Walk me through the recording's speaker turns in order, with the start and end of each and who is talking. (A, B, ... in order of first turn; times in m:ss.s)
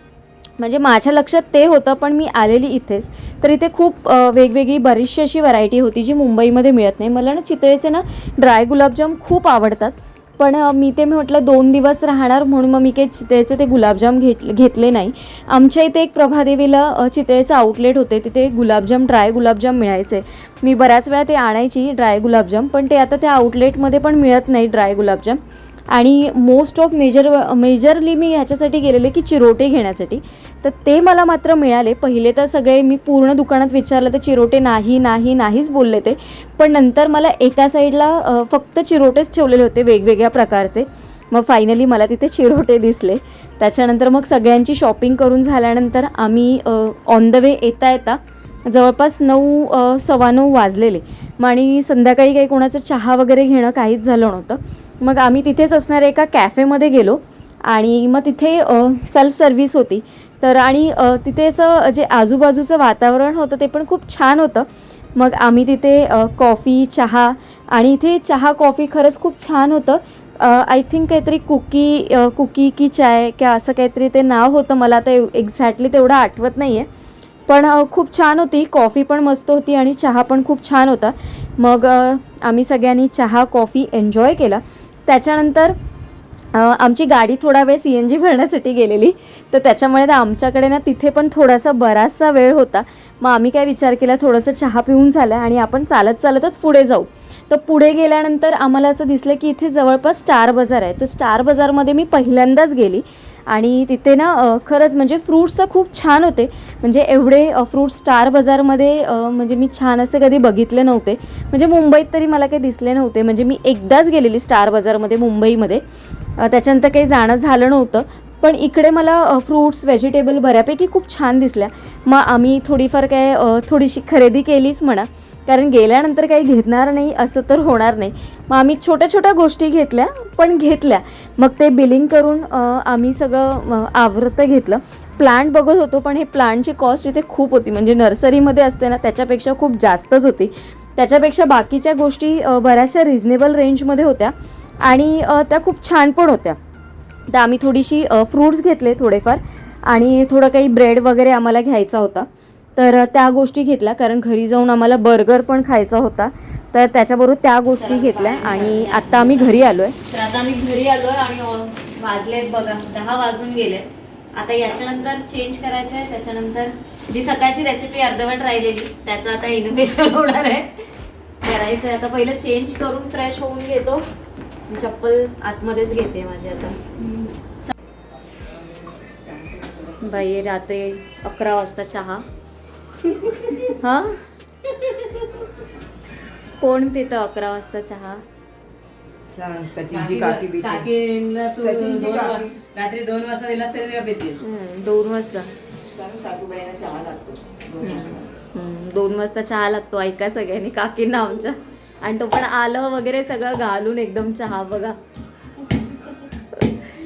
0:00.6-0:25.4 A
0:25.9-1:16.9 A
1:17.5-1:25.8 A
1:26.5-1:55.8 A
1:56.4-2:26.6 A
2:27.3-2:50.9 A
2:37.8-2:39.6 B
2:51.4-2:54.1 A
2:54.7-2:56.8 A
2:59.4-2:59.8 C
3:00.0-3:02.2 A
3:03.8-3:04.2 A
3:06.6-3:08.2 A
3:09.3-3:10.9 C
3:09.9-3:14.4 B
3:11.5-3:12.6 C
3:14.4-3:15.5 A
3:15.8-3:18.3 C
3:17.8-3:25.0 A